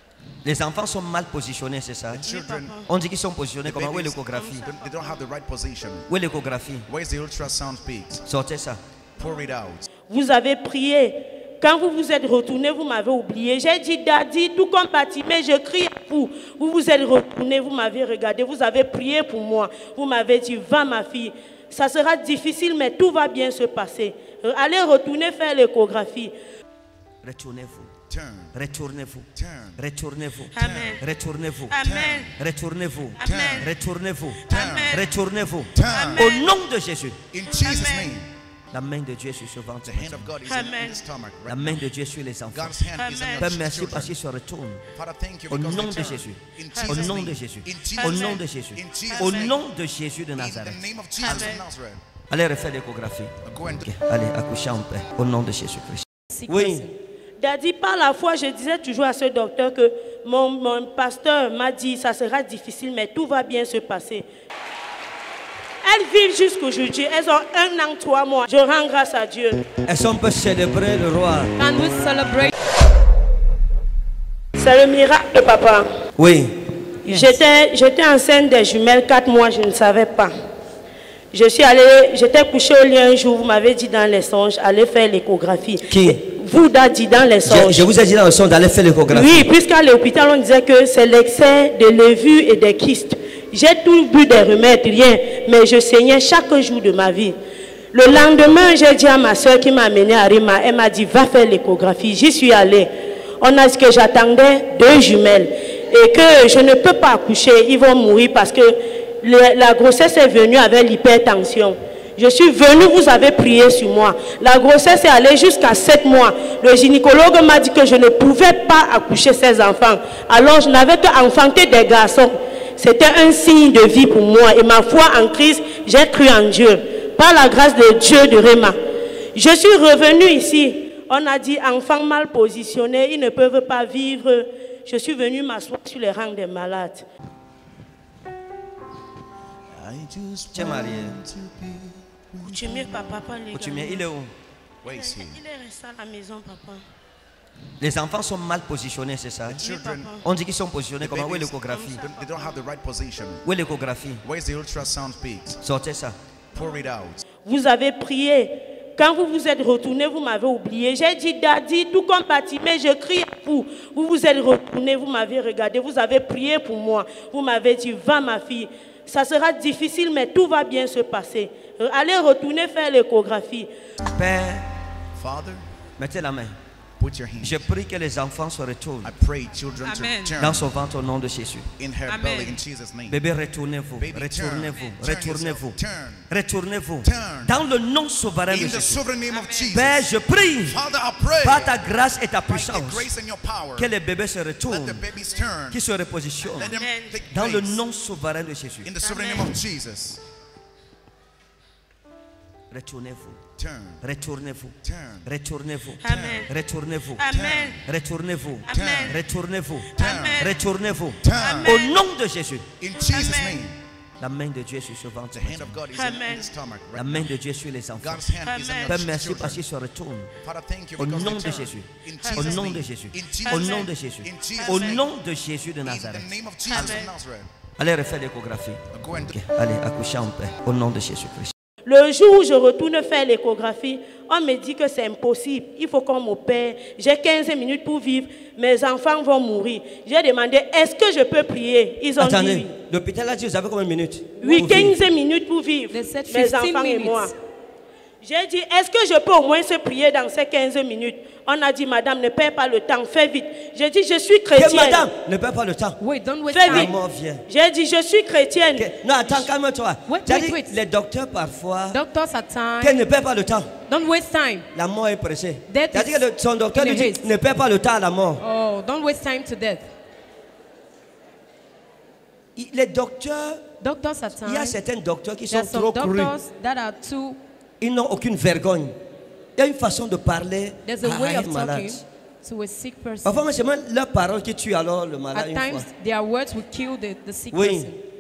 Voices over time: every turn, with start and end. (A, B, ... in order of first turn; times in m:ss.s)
0:00.4-0:02.2 A
0:02.1-0:02.8 B
0:02.3-0:02.9 C
0:02.9-0:04.7 A
0:03.6-0:06.1 B
0:04.3-0:05.2 C
0:06.1-0:06.9 A
0:06.9-0:08.2 B
0:08.3-0:08.8 A
0:09.2-0:09.9 B
0:10.1-0:26.3 C
0:27.2-0:27.9 A
0:28.1-0:28.5 B
0:28.5-0:31.8 A
0:29.4-0:29.8 B
0:30.6-0:31.0 C
0:30.6-0:31.0 B
0:31.7-0:32.3 C
0:31.8-0:32.4 B
0:32.4-0:37.2 A
0:33.2-0:33.7 C
0:33.2-0:33.7 B
0:34.5-0:35.1 C
0:34.5-0:35.0 B
0:35.7-0:36.3 B
0:35.9-0:36.5 C
0:37.3-0:38.3 B
0:37.6-0:38.1 C
0:38.7-0:40.3 A
0:39.8-0:41.8 B
0:40.4-0:41.0 C
0:41.5-0:42.8 A
0:42.5-0:44.2 B
0:43.0-0:43.4 C
0:43.4-0:44.8 A
0:44.9-0:49.6 B
0:45.5-0:51.5 A
0:46.7-0:47.1 C
0:50.4-0:52.0 B
0:51.3-0:51.6 C
0:52.3-0:56.9 A
0:53.4-0:53.9 B
0:56.3-0:57.0 D
0:57.4-1:04.3 C
1:05.8-1:09.6 C
1:09.8-1:11.5 A
1:11.6-1:12.5 D
1:14.6-1:15.9 C
1:16.2-1:16.6 A
1:17.0-1:17.4 D
1:17.1-1:20.3 C
1:21.3-1:27.9 C
1:25.9-1:26.2 A
1:27.4-1:29.5 A
1:29.1-1:37.4 C
1:37.9-2:08.8 C
2:09.3-2:17.0 C
2:19.7-2:23.1 B
2:20.5-2:21.2 A
2:22.4-2:24.1 C
2:23.5-2:24.3 A
2:24.8-2:25.4 B
2:24.9-2:26.8 C
2:27.8-2:29.6 A
2:29.5-2:30.2 B
2:29.6-2:30.2 C
2:30.2-2:32.0 A
2:31.0-2:33.4 B
2:31.7-2:32.6 C
2:33.4-2:34.2 A
2:34.2-2:35.6 B
2:35.6-2:36.2 A
2:36.5-2:37.2 B
2:37.4-2:53.7 C
2:54.0-2:54.7 A
2:55.2-2:55.6 B
2:56.0-2:56.6 A
2:57.0-2:57.7 B
2:57.4-2:59.1 A
2:59.0-3:00.7 B
2:59.8-3:00.4 D
3:00.4-3:01.7 A
3:01.8-3:03.2 B
3:02.1-3:02.6 D
3:03.1-3:05.8 A
3:04.0-3:06.3 B
3:06.3-3:09.0 A
3:07.0-3:07.5 B
3:08.5-3:10.1 B
3:09.3-3:09.7 D
3:09.7-3:10.8 A
3:10.7-3:11.8 B
3:11.4-3:13.1 A
3:12.5-3:13.9 B
3:13.8-3:15.0 A
3:14.6-3:15.8 B
3:15.7-3:16.7 A
3:16.4-3:17.8 B
3:16.6-3:17.2 C
3:17.3-3:18.9 A
3:18.8-3:20.2 B
3:19.0-3:19.6 C
3:22.7-3:23.4 A
3:23.6-3:24.0 B
3:24.0-3:32.7 A
3:24.8-3:25.3 B
3:26.0-3:26.5 C
3:26.0-3:26.5 B
3:27.2-3:27.8 C
3:27.3-3:27.8 B
3:28.7-3:29.2 C
3:28.7-3:29.2 B
3:29.9-3:30.6 C
3:30.0-3:30.5 B
3:31.2-3:31.9 B
3:31.4-3:31.9 C
3:32.8-3:33.8 B
3:33.1-3:33.6 C
3:34.2-3:35.8 A
3:35.3-3:37.3 B
3:35.9-3:36.5 C
3:36.9-3:38.2 A
3:38.0-3:39.6 B
3:38.4-3:39.0 C
3:38.9-3:40.3 A
3:40.4-3:45.1 B
3:41.0-3:47.0 A
3:45.8-3:47.5 B
3:47.8-3:51.5 A
3:48.9-3:49.4 B
3:51.8-4:02.7 C
4:02.2-4:05.0 A
4:04.4-4:04.9 D
4:04.4-4:07.3 C
4:05.9-4:07.3 D
4:08.2-4:15.1 C
4:14.6-4:16.0 A
4:16.0-4:16.9 D
4:16.5-4:16.9 C
4:16.6-4:17.4 A
4:17.5-4:18.9 C
4:18.8-4:22.0 A
4:20.1-4:20.8 D
4:21.9-4:23.0 D
4:22.8-4:23.7 A
4:23.9-4:24.7 D
4:24.7-4:28.4 A
4:25.7-4:27.3 D
4:28.4-4:29.9 D
4:32.6-4:33.6 A
4:33.8-4:34.8 D
4:34.4-4:36.4 A
4:35.5-4:37.4 D
4:37.8-4:38.9 A
4:39.6-4:42.0 A
4:40.8-4:43.4 D
4:43.2-4:45.9 A
4:45.3-4:48.0 D
4:47.5-4:47.9 A